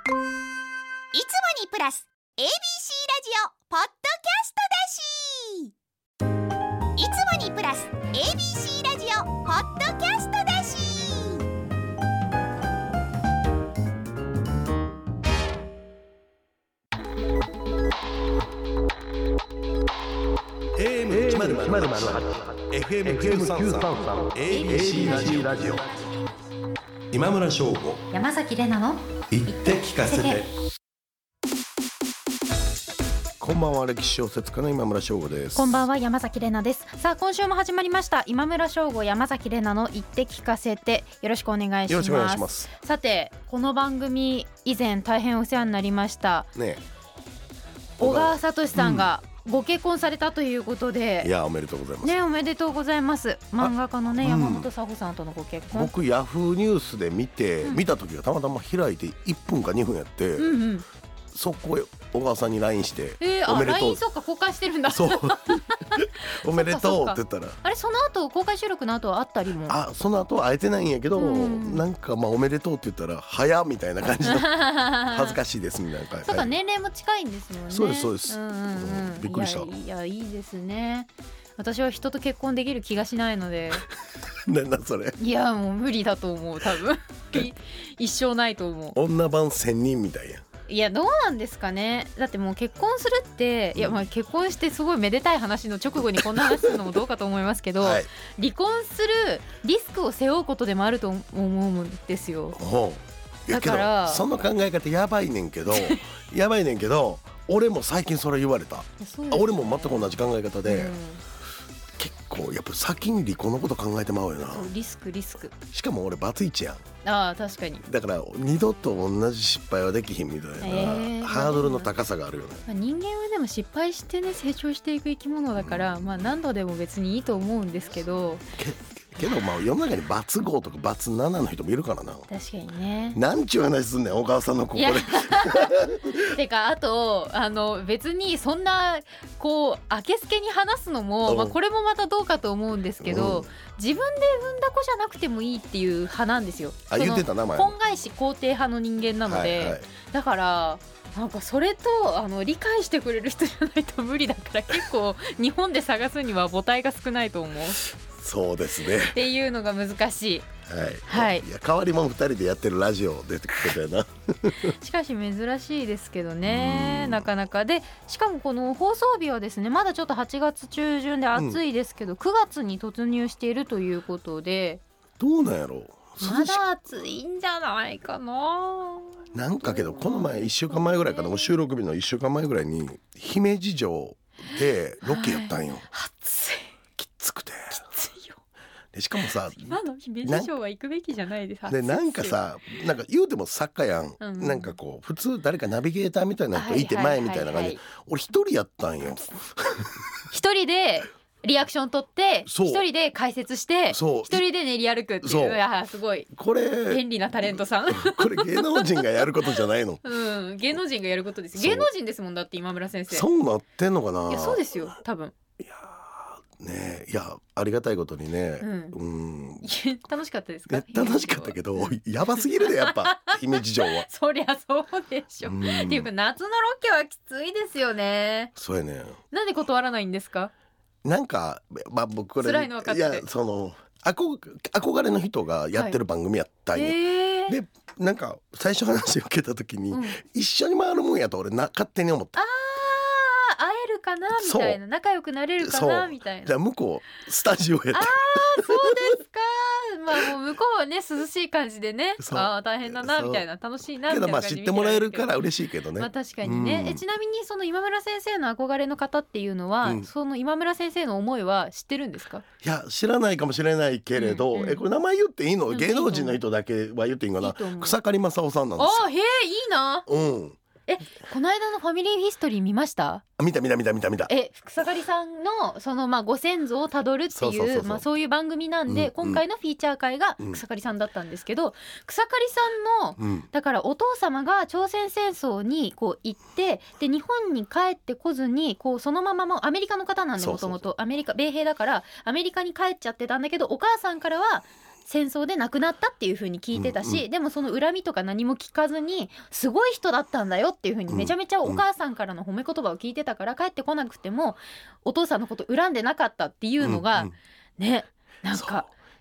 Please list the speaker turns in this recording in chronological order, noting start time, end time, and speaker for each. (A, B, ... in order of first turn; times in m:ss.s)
0:01.1-0:05.7 A
0:07.0-0:11.5 A
0:20.8-0:25.9 B
0:24.4-0:25.5 C
0:27.1-0:28.0 B
0:28.1-0:30.4 C
0:29.3-0:30.5 B
0:33.4-0:35.8 B
0:35.6-0:46.5 C
0:41.9-0:42.7 B
0:46.5-0:46.8 B
0:48.0-0:51.3 C
0:48.0-0:49.1 B
0:51.2-0:52.2 B
0:52.0-0:55.9 C
0:53.6-0:54.7 B
0:55.7-1:00.6 B
1:00.4-1:00.8 C
1:01.3-1:04.0 B
1:03.2-1:09.8 C
1:04.9-1:07.6 B
1:09.6-1:16.5 B
1:11.1-1:11.8 C
1:14.2-1:15.4 C
1:16.2-1:23.8 C
1:17.7-1:19.7 B
1:24.4-1:25.2 B
1:25.2-1:29.0 C
1:28.9-1:30.4 B
1:30.7-1:42.6 C
1:33.7-1:34.0 B
1:36.2-1:36.9 B
1:37.8-1:38.1 B
1:42.6-1:50.9 B
1:43.5-1:44.2 C
1:45.7-1:46.1 C
1:49.0-1:51.2 C
1:52.0-1:54.7 B
1:54.5-1:55.5 C
1:55.6-1:56.8 B
1:57.0-1:57.8 C
1:57.9-2:02.6 B
2:00.6-2:01.9 C
2:02.7-2:08.4 C
2:05.6-2:05.9 B
2:08.6-2:12.3 B
2:12.3-2:13.2 C
2:13.1-2:16.3 B
2:14.7-2:37.8 C
2:21.2-2:21.6 B
2:23.0-2:23.5 B
2:26.9-2:27.7 B
2:29.2-2:29.9 B
2:37.9-2:39.2 B
2:39.0-2:40.5 C
2:40.7-2:44.7 B
2:41.1-2:41.4 C
2:44.6-2:54.8 C
2:46.4-2:47.2 B
2:51.3-2:51.6 B
2:55.2-2:56.6 B
2:56.2-3:01.5 C
2:59.3-3:05.9 B
3:04.6-3:06.7 C
3:07.0-3:07.8 B
3:07.7-3:08.4 C
3:08.9-3:10.5 B
3:09.2-3:12.4 C
3:11.7-3:20.0 B
3:14.2-3:14.7 C
3:16.5-3:17.8 C
3:20.3-3:26.3 C
3:22.4-3:22.8 B
3:23.9-3:24.4 B
3:25.2-3:25.6 B
3:26.3-3:30.0 B
3:26.8-3:29.2 C
3:30.0-3:33.2 C
3:31.5-3:31.9 B
3:33.1-3:34.6 B
3:34.3-3:35.3 C
3:35.6-3:39.7 B
3:38.6-3:39.0 C
3:39.6-3:48.5 C
3:40.7-3:44.0 B
3:45.4-3:46.1 B
3:48.6-3:49.2 B
3:49.3-3:50.5 C
3:51.0-4:02.4 B
3:52.4-3:53.2 C
3:56.7-3:57.6 C
3:59.9-4:00.2 C
4:02.3-4:06.5 C
4:04.3-4:04.8 B
4:05.6-4:09.0 B
4:07.9-4:15.3 C
4:12.2-4:13.4 B
4:14.1-4:17.0 B
4:16.0-4:22.4 C
4:22.6-4:29.0 B
4:24.2-4:24.8 C
4:25.7-4:26.4 C
4:27.4-4:28.0 C
4:28.8-4:30.1 C
4:30.1-4:30.6 B
4:30.9-4:33.2 C
4:33.4-4:34.3 B
4:34.3-5:08.9 C
4:37.3-4:38.0 B
4:38.9-4:39.4 B
4:43.2-4:43.4 B
4:50.4-4:50.8 B
4:56.7-4:57.2 B
5:01.1-5:01.8 B
5:06.8-5:07.3 B
5:08.5-5:08.8 B